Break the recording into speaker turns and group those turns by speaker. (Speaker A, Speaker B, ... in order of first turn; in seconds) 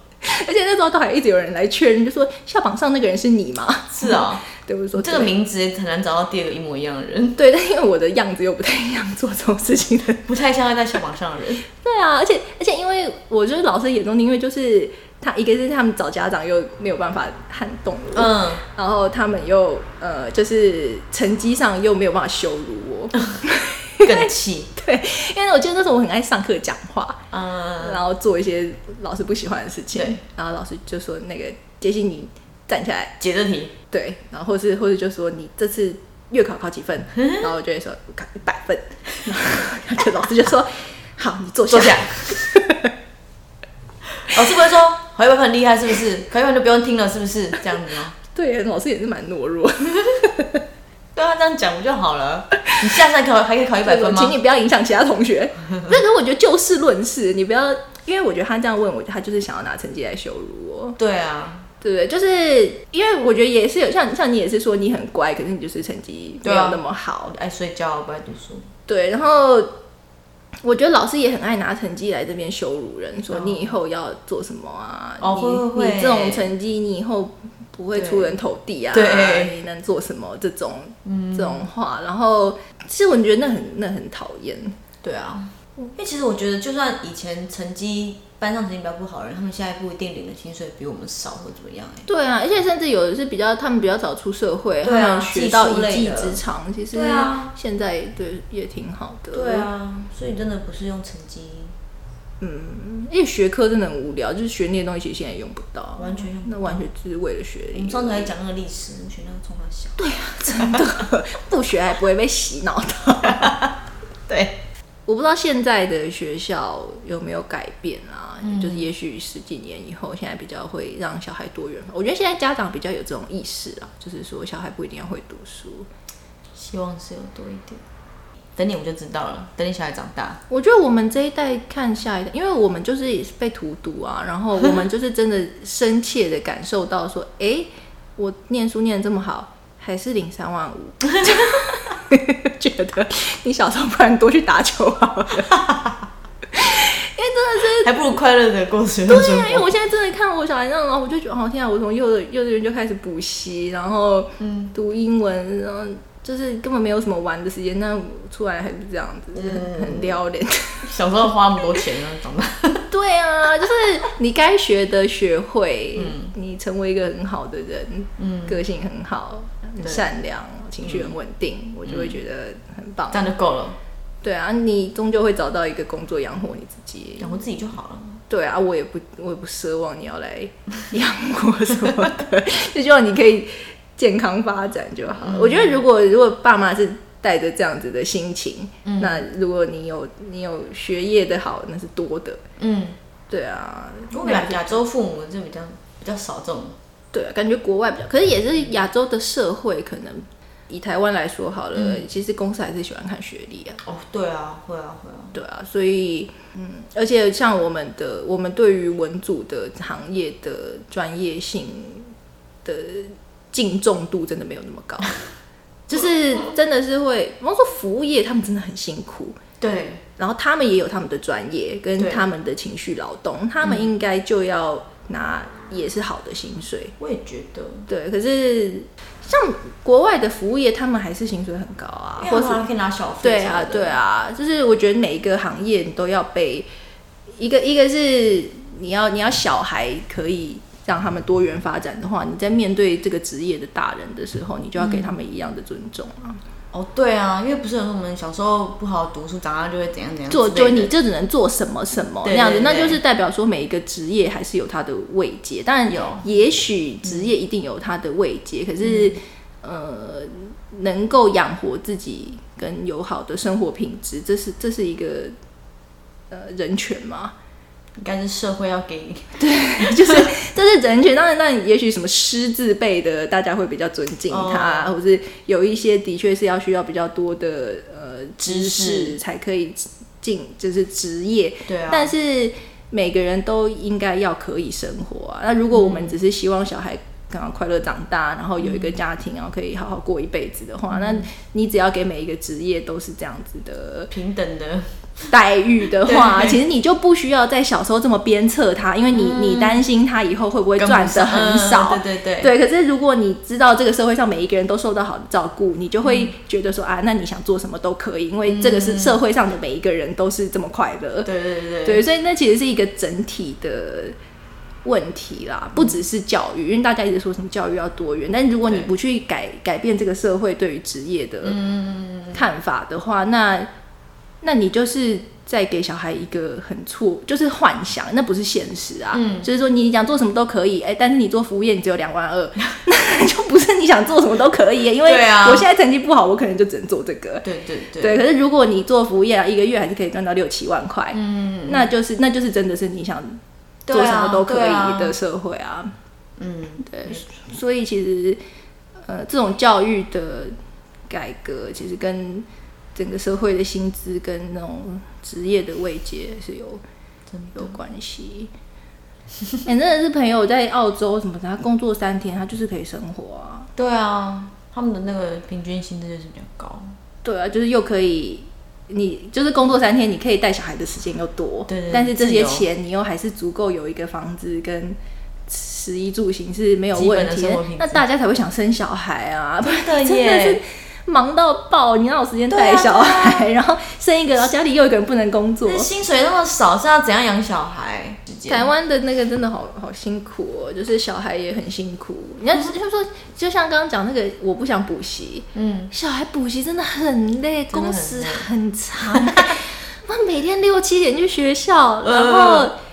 Speaker A: 0.2-5.3, 7.3-10.3, 11.8-27.2, 27.8-33.1, 33.9-42.9, 48.3-50.6, 53.8-61.0, 61.8-67.3, 68.9-69.7, 70.6-84.8, 92.1-99.7, 102.4-108.3, 110.0-113.7, 115.1-125.9, 130.5-145.7, 146.5-148.0, 149.1-160.9, 162.9-173.3, 174.2-177.4, 178.3-192.4, 193.3-194.8, 197.1-203.8, 205.3-212.1, 212.6-215.2, 215.9-219.4, 220.2-226.9, 227.9-232.6, 233.2-236.7, 237.4-246.4, 250.3-265.3, 266.3-267.3, 269.4-294.1, 295.2-311.3, 311.8-314.1, 314.8-321.6, 322.3-323.7, 324.4-343.4, 343.9-345.9, 346.8-348.4, 349.0-350.5, 351.1-356.8, 357.5-358.5, 359.6-363.7, 367.2-385.9, 388.5-402.8
Speaker B: 3.9-4.4, 5.0-7.4, 10.3-11.6, 18.1-18.6, 24.0-24.7, 27.3-28.0, 33.2-33.7, 37.2-37.5, 41.7-42.4, 44.1-48.1, 51.1-54.4, 61.0-61.7, 66.4-68.7, 73.3-73.7, 75.2-76.5, 77.9-78.4, 78.9-79.5, 81.0-81.6, 85.0-92.1, 94.8-96.4, 96.9-97.5, 99.3-101.7, 106.0-106.9, 107.7-111.0, 113.3-113.7, 114.3-114.6, 118.4-118.8, 126.5-127.8, 128.6-130.4, 141.2-141.5, 145.5-146.0, 147.8-149.7, 154.4-154.7, 159.3-160.2, 160.8-162.9, 165.9-166.3, 168.2-168.6, 169.8-170.1, 170.8-171.1, 171.8-172.2, 173.1-173.8, 177.2-178.2, 185.2-185.8, 188.8-189.2, 192.6-193.0, 194.1-196.8, 201.7-202.0, 203.8-205.3, 219.6-220.0, 222.0-222.3, 223.6-223.9, 227.0-227.9, 232.2-234.0, 244.8-245.1, 246.7-250.9, 252.2-253.0, 255.9-256.2, 258.8-259.2, 268.0-270.3, 274.3-274.9, 278.4-279.2, 281.7-282.1, 285.7-286.1, 288.6-289.0, 290.9-291.2, 294.1-295.3, 296.0-296.6, 299.1-299.8, 300.8-302.5, 306.0-306.3, 308.4-309.2, 311.2-312.0, 321.4-322.4, 329.1-329.5, 335.0-335.7, 337.4-338.2, 341.1-341.9, 343.9-345.1, 346.4-347.2, 357.3-357.7, 363.8-366.9, 371.7-372.6, 376.9-378.0, 379.6-380.6, 382.5-383.5, 385.6-388.7, 395.5-395.9, 397.7-398.5, 399.1-399.5, 402.0-402.7